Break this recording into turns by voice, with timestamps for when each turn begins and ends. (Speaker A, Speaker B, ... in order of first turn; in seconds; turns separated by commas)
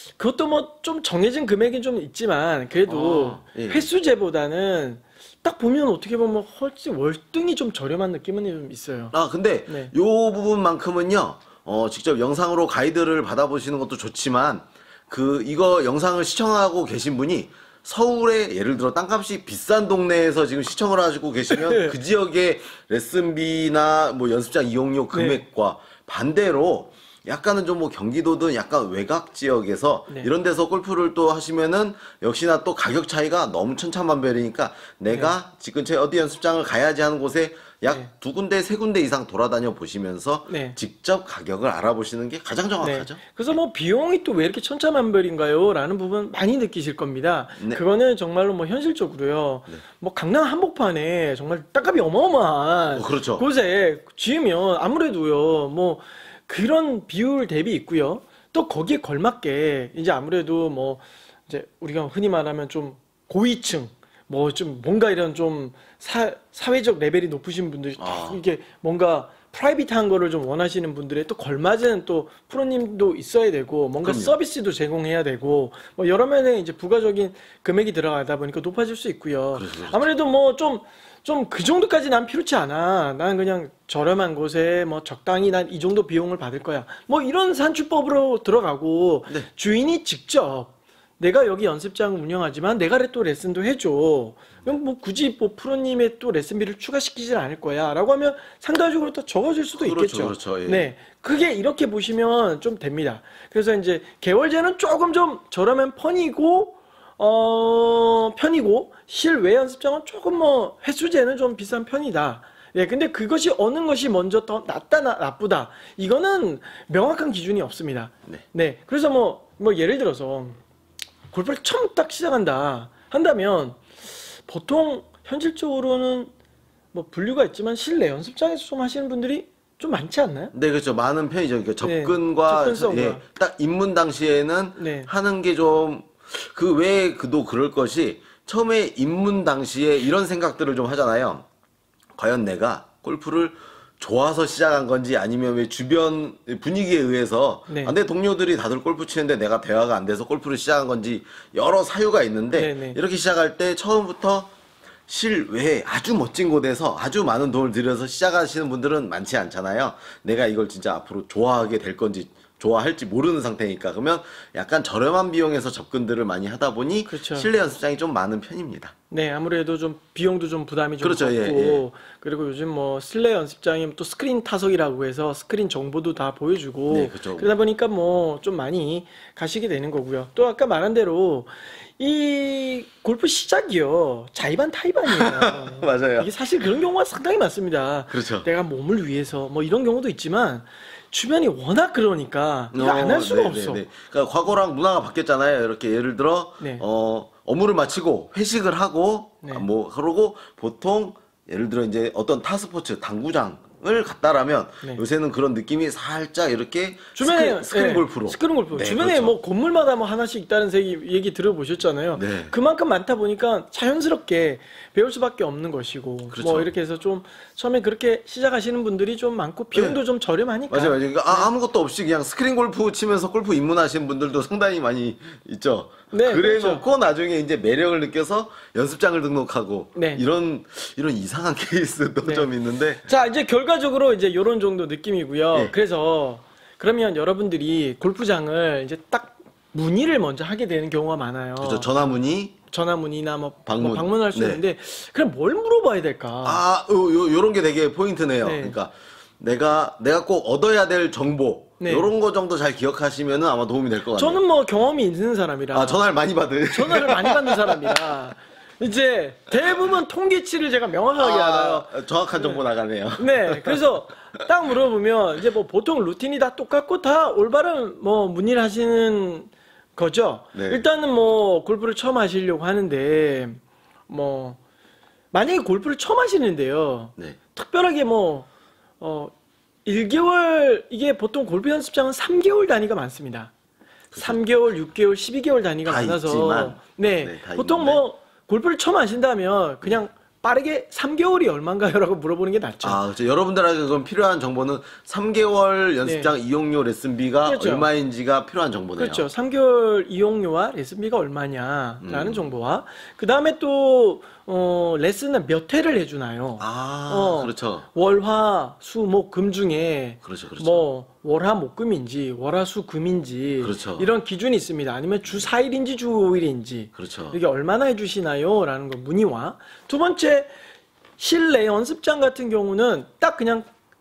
Speaker A: 0.2-9.1, Speaker B: 2.9-3.9, Speaker B: 9.1-43.5, Speaker A: 9.7-9.9, Speaker A: 21.5-21.9, Speaker A: 25.1-25.4, Speaker A: 40.5-40.8, Speaker A: 42.8-120.6, Speaker B: 52.9-53.4, Speaker B: 68.0-68.4, Speaker B: 74.0-74.3, Speaker B: 79.5-80.1, Speaker B: 99.7-100.9, Speaker A: 121.3-123.8, Speaker A: 124.5-126.3, Speaker A: 126.9-130.5, Speaker B: 130.5-141.4, Speaker A: 131.8-133.2, Speaker A: 134.8-135.1, Speaker B: 142.1-154.5, Speaker A: 147.7-147.9, Speaker A: 152.5-153.0, Speaker B: 155.1-168.9, Speaker A: 167.1-167.5, Speaker A: 169.1-193.8, Speaker B: 171.0-171.8, Speaker B: 176.9-177.5, Speaker B: 185.1-186.3, Speaker B: 188.1-188.5, Speaker B: 192.7-209.3, Speaker A: 207.2-221.5, Speaker B: 212.2-212.5, Speaker B: 216.3-216.7, Speaker B: 219.7-220.0, Speaker B: 220.7-233.0, Speaker A: 226.1-226.8, Speaker A: 229.9-230.2, Speaker A: 232.2-232.5, Speaker A: 233.0-242.2, Speaker B: 241.6-242.5, Speaker A: 242.7-246.6, Speaker B: 243.7-244.6, Speaker B: 246.4-254.4, Speaker A: 248.4-248.8, Speaker A: 251.8-252.1, Speaker A: 254.1-256.0, Speaker B: 255.7-257.9, Speaker A: 256.7-262.6, Speaker B: 261.2-263.8, Speaker A: 263.2-274.6, Speaker B: 270.5-270.8, Speaker A: 275.3-278.5, Speaker A: 279.0-279.3, Speaker A: 279.8-283.5, Speaker B: 284.1-284.4, Speaker A: 284.1-293.0, Speaker B: 285.8-288.0, Speaker B: 292.8-299.3, Speaker A: 296.0-296.3, Speaker A: 297.4-297.9, Speaker A: 299.0-320.5, Speaker B: 302.0-302.5, Speaker B: 306.6-307.9, Speaker B: 310.2-310.9, Speaker B: 313.6-314.1, Speaker B: 316.9-317.4, Speaker A: 321.2-323.7